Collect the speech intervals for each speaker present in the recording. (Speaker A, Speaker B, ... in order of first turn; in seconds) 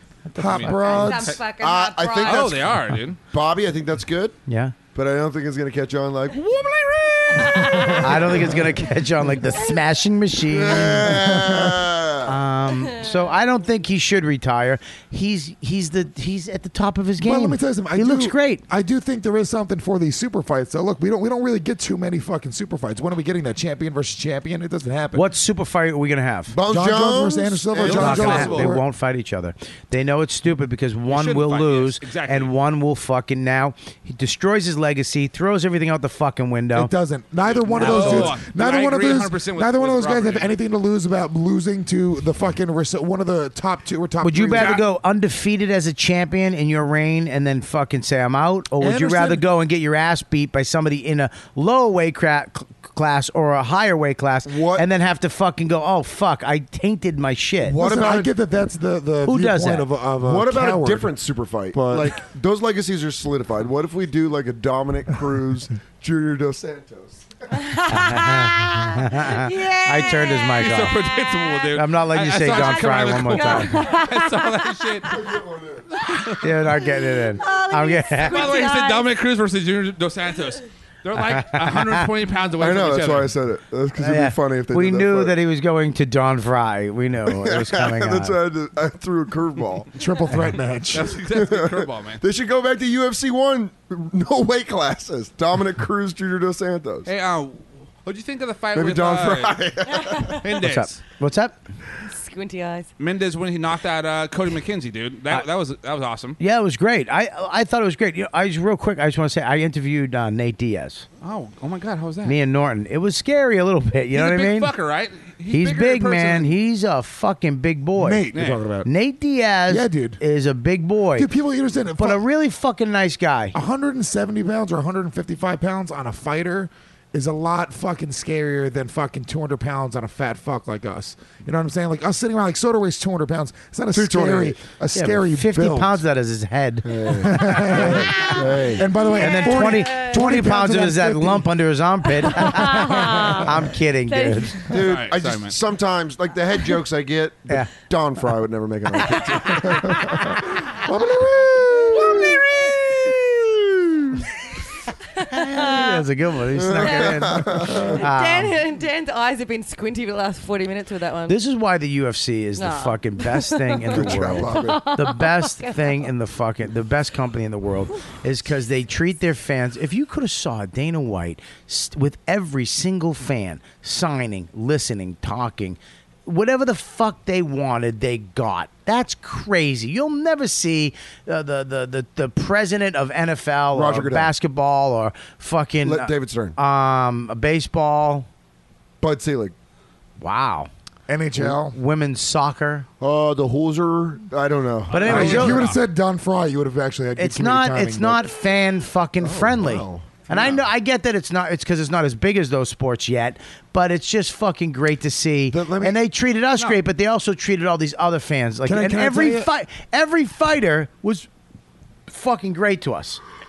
Speaker A: 0.3-1.0, 4.5-4.8, 7.9-11.3, 12.2-18.6, 25.1-26.6, 27.8-36.9, 37.8-38.3, 44.2-57.8, 59.2-59.9, 67.9-71.0, 71.7-73.8, 76.4-78.5, 81.3-82.1, 84.0-88.4, 100.6-101.6, 106.4-111.1, 112.2-114.7, 115.5-118.2, 118.8-121.3, 122.0-123.6, 134.9-138.3, 139.1-144.6, 155.2-158.6, 161.3-188.3, 190.2-190.7, 191.4-192.9, 194.9-195.7, 197.2-211.3, 212.1-213.2
Speaker B: 0.3-1.4, 7.5-8.3, 11.0-12.0, 17.2-25.3, 26.7-28.8, 36.8-44.8, 48.8-49.5, 57.7-61.2, 61.7-62.2, 90.0-91.2, 118.0-118.9, 119.7-120.2, 121.2-122.2, 123.5-136.0, 137.1-141.5, 142.6-143.5, 149.7-152.4, 191.1-191.8, 195.1-198.2, 205.5-206.0, 208.7-209.5
Speaker C: 0.4-1.4, 2.2-3.2, 27.8-28.8, 31.1-32.5, 37.5-40.5, 44.5-44.8, 70.6-75.2, 76.0-76.4, 78.2-83.3, 90.9-92.2, 97.1-99.6, 100.2-101.0, 103.0-106.4, 111.2-112.4, 114.1-116.5, 118.3-118.6, 144.7-145.6, 194.9-195.8
Speaker D: 0.7-2.6, 7.4-7.9, 67.5-71.7, 72.3-75.2, 76.8-79.1, 100.1-100.4, 102.1-102.9, 138.1-138.4, 139.0-140.3, 142.1-144.8, 149.0-150.2, 152.1-152.7, 155.0-156.0, 156.8-161.4, 162.6-166.1
Speaker E: 1.6-4.4, 5.0-8.6, 10.4-12.4, 26.5-28.6, 54.5-54.9, 57.6-58.3, 60.2-67.2, 75.1-75.9, 82.6-85.4, 87.3-89.9, 91.3-97.1, 98.7-100.4, 133.9-134.6, 136.8-138.9, 144.7-150.4, 151.8-154.1, 156.5-158.0, 163.9-164.8, 183.7-184.3, 185.8-186.6, 189.0-189.5, 193.0-195.7, 199.2-200.2